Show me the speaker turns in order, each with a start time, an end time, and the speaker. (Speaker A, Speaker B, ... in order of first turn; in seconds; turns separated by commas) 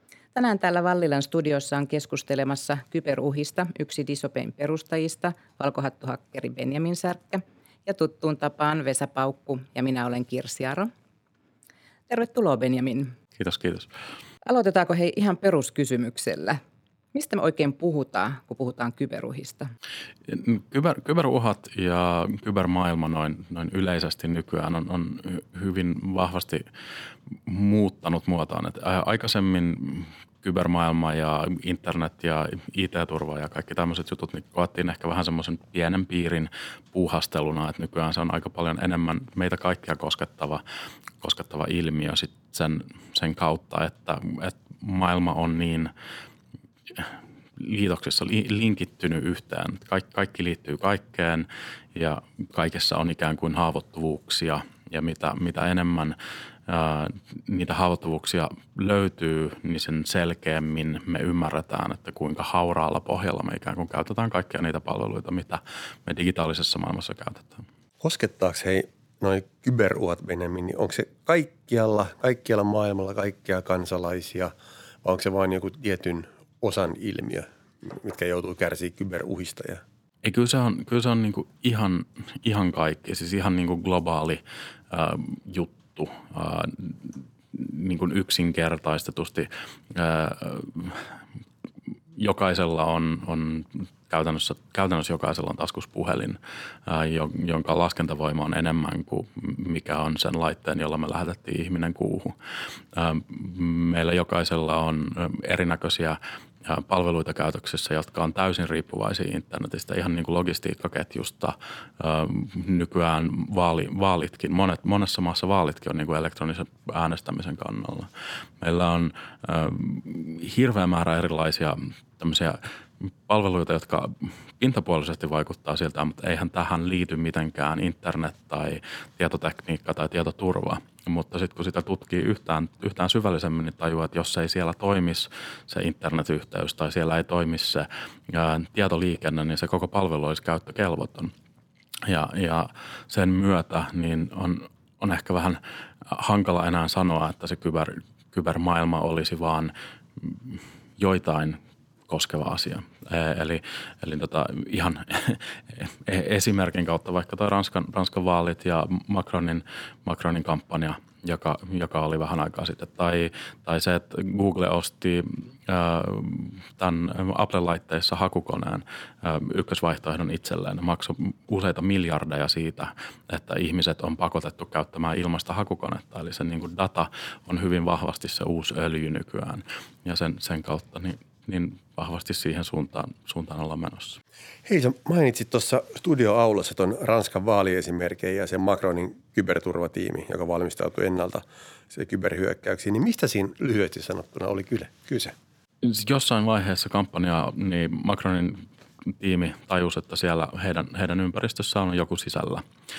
Speaker A: 0.3-10.9, Speaker A: 12.1-13.2, Speaker B: 13.4-13.9, Speaker A: 14.5-16.6, Speaker A: 17.1-19.7, Speaker B: 20.3-26.6, Speaker B: 27.5-40.6, Speaker B: 41.2-45.9, Speaker B: 46.9-56.2, Speaker B: 56.7-67.6, Speaker C: 68.0-79.8, Speaker B: 80.2-91.1, Speaker B: 92.2-102.3, Speaker B: 102.9-118.1, Speaker B: 118.6-141.3, Speaker B: 142.1-184.2, Speaker C: 184.7-195.3, Speaker B: 195.8-202.6